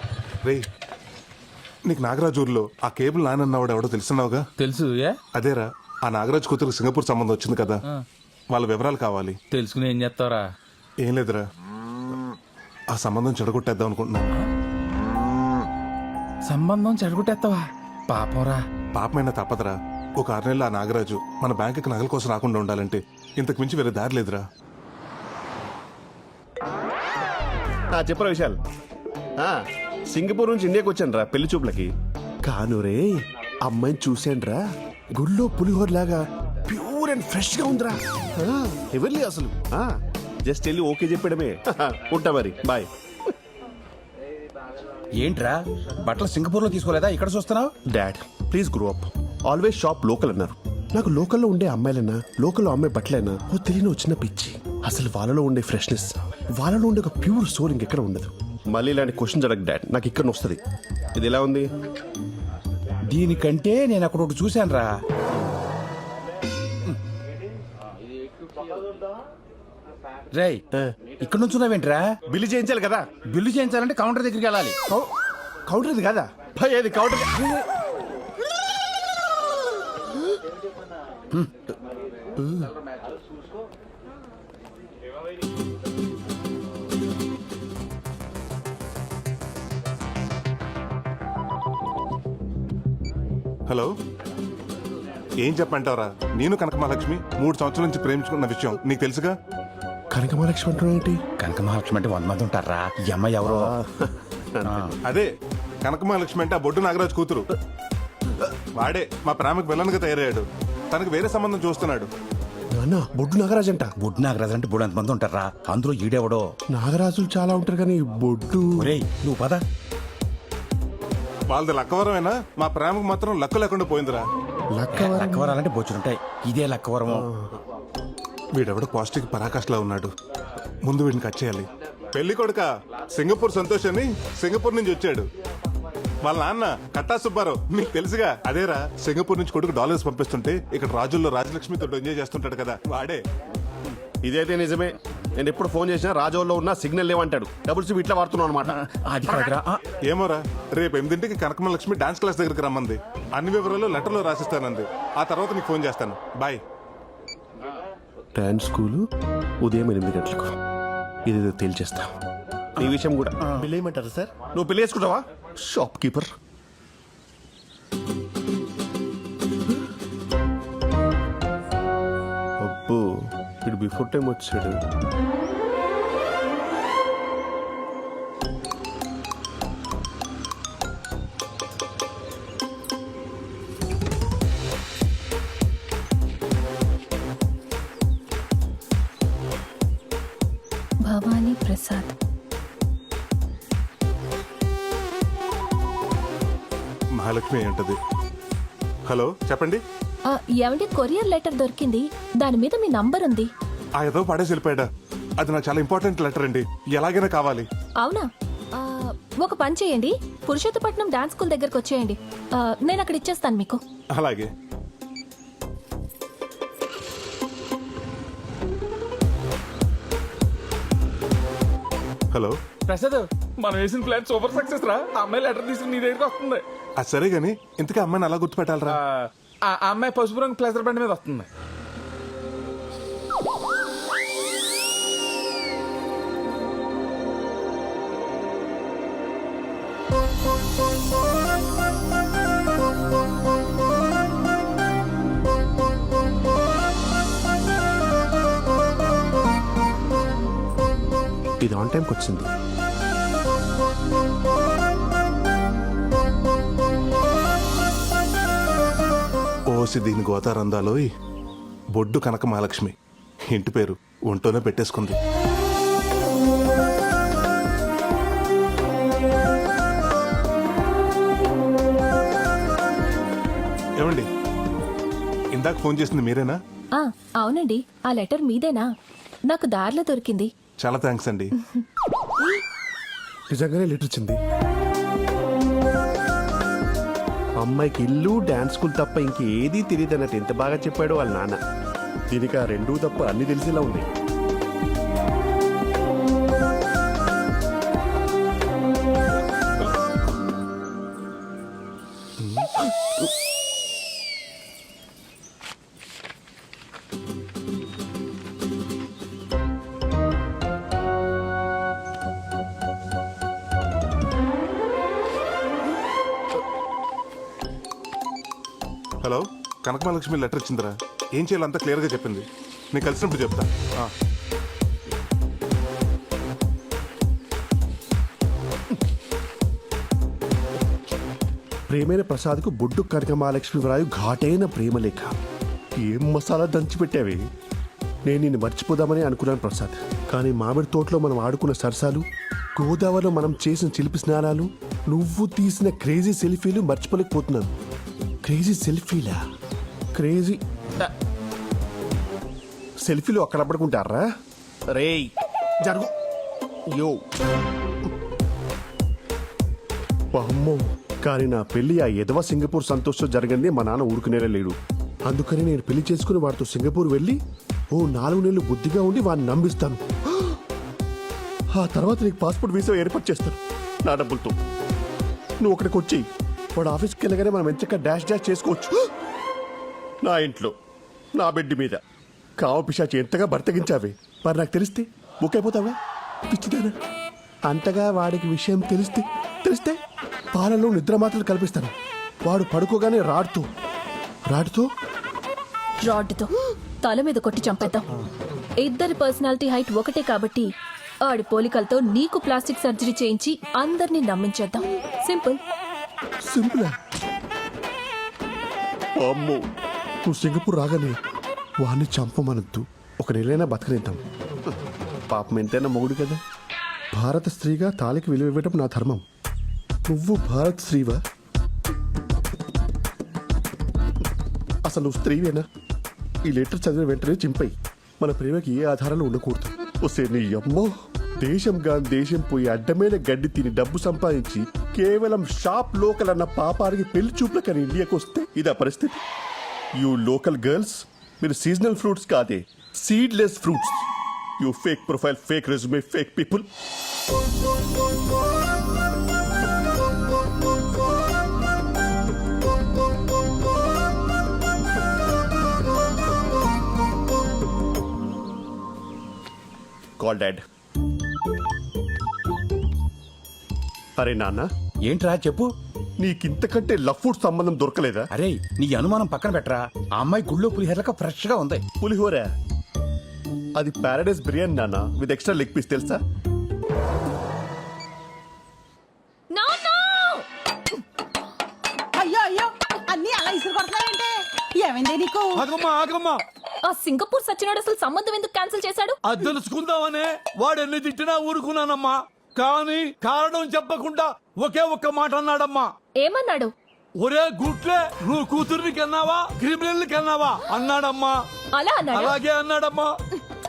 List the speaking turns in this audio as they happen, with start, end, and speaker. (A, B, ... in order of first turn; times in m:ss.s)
0:01.9-0:04.4 A
0:04.6-0:05.2 B
0:05.4-0:07.8 A
0:08.5-0:09.4 A
0:09.5-0:10.4 B
0:11.0-0:11.4 A
0:12.9-0:14.3 A
0:16.5-0:18.6 B
0:19.0-0:24.4 A
0:27.9-0:28.6 C
0:29.4-0:31.9 C
0:32.4-0:33.1 C
0:33.6-0:34.6 C
0:35.2-0:39.9 C
0:40.5-0:42.9 C
0:45.2-0:47.7 D
0:47.9-1:00.6 C
1:01.2-1:01.7 C
1:03.1-1:05.0 D
1:10.3-1:10.6 D
1:11.2-1:12.1 D
1:12.3-1:13.2 C
1:13.2-1:14.8 D
1:15.7-1:17.6 C
1:22.4-1:22.7 C
1:35.4-1:39.4 A
1:40.1-1:41.2 C
1:41.4-1:43.7 D
1:43.4-1:45.0 C
1:44.6-1:44.9 D
1:45.8-1:47.5 A
1:48.8-1:52.1 A
1:52.7-1:53.9 C
1:54.0-1:56.5 D
1:56.7-1:58.9 C
1:58.8-1:59.6 D
2:01.5-2:04.2 A
2:04.7-2:05.6 C
2:04.9-2:07.2 D
2:07.1-2:07.6 C
2:08.6-2:10.1 A
2:10.8-2:15.3 A
2:16.2-2:23.2 A
2:24.2-2:28.7 C
2:28.6-2:29.8 D
2:30.1-2:36.6 A
2:38.4-2:39.0 C
2:39.6-2:40.5 C
2:41.3-2:42.1 C
2:42.8-2:46.3 C
2:52.6-2:53.1 C
2:53.6-2:54.8 C
3:11.0-3:12.1 E
3:17.2-3:18.0 A
3:19.1-3:19.8 A
3:20.3-3:23.5 E
3:24.0-3:24.9 A
3:25.4-3:27.7 A
3:28.0-3:33.8 E
3:34.2-3:34.5 A
3:42.9-3:46.6 B
3:47.0-3:49.0 A
3:48.9-3:51.5 B
4:11.6-4:12.5 C
4:19.7-4:21.0 A
4:22.0-4:22.9 A
4:23.5-4:25.2 A
4:34.0-4:34.3 A
4:35.5-4:36.6 A
4:37.0-4:38.9 E
4:39.5-4:40.5 E
4:40.8-4:41.5 A
4:43.5-4:44.4 C
4:47.6-4:51.6 C
4:52.3-4:54.1 C
5:19.2-5:24.1 A
5:31.9-5:35.3 C
5:36.0-5:37.4 C
5:38.3-5:42.2 C
5:42.8-5:47.7 C
5:48.4-5:49.4 C
5:50.2-5:51.1 C
5:53.0-5:54.2 C
5:54.9-5:55.3 C
5:55.8-5:56.1 C
5:56.9-5:57.2 C
6:00.3-6:04.8 C
6:05.3-6:07.4 C
6:07.9-6:10.5 C
6:11.7-6:14.6 C
6:15.6-6:19.0 C
6:20.2-6:20.7 C
6:21.4-6:22.0 C
6:22.6-6:26.0 C
6:26.5-6:27.0 C
6:27.7-6:30.0 C
6:30.5-6:31.9 C
6:32.5-6:33.7 C
6:34.5-6:34.9 C
6:36.0-6:38.1 E
6:38.8-6:40.7 E
6:41.2-6:45.6 E
6:46.5-6:46.9 C
6:49.2-6:49.6 C
6:50.3-6:51.2 C
6:51.8-6:54.2 C
6:55.3-6:56.4 C
6:57.1-6:59.2 C
7:00.1-7:01.2 C
7:04.9-7:05.6 C
7:06.5-7:19.2 C
7:20.0-7:24.1 C
7:24.6-7:26.7 C
7:40.2-7:40.6 C
7:44.2-7:44.7 C
7:45.0-7:45.7 D
7:46.2-7:48.3 C
7:48.4-7:51.8 D
7:52.0-7:52.5 C
7:53.8-7:56.2 C
7:59.5-8:00.5 E
8:02.2-8:05.7 F
8:05.6-8:06.4 G
8:06.8-8:09.2 E
8:09.2-8:15.9 G
8:16.2-8:16.7 E
8:17.2-8:21.4 G
8:21.7-8:22.4 E
8:22.1-8:23.2 G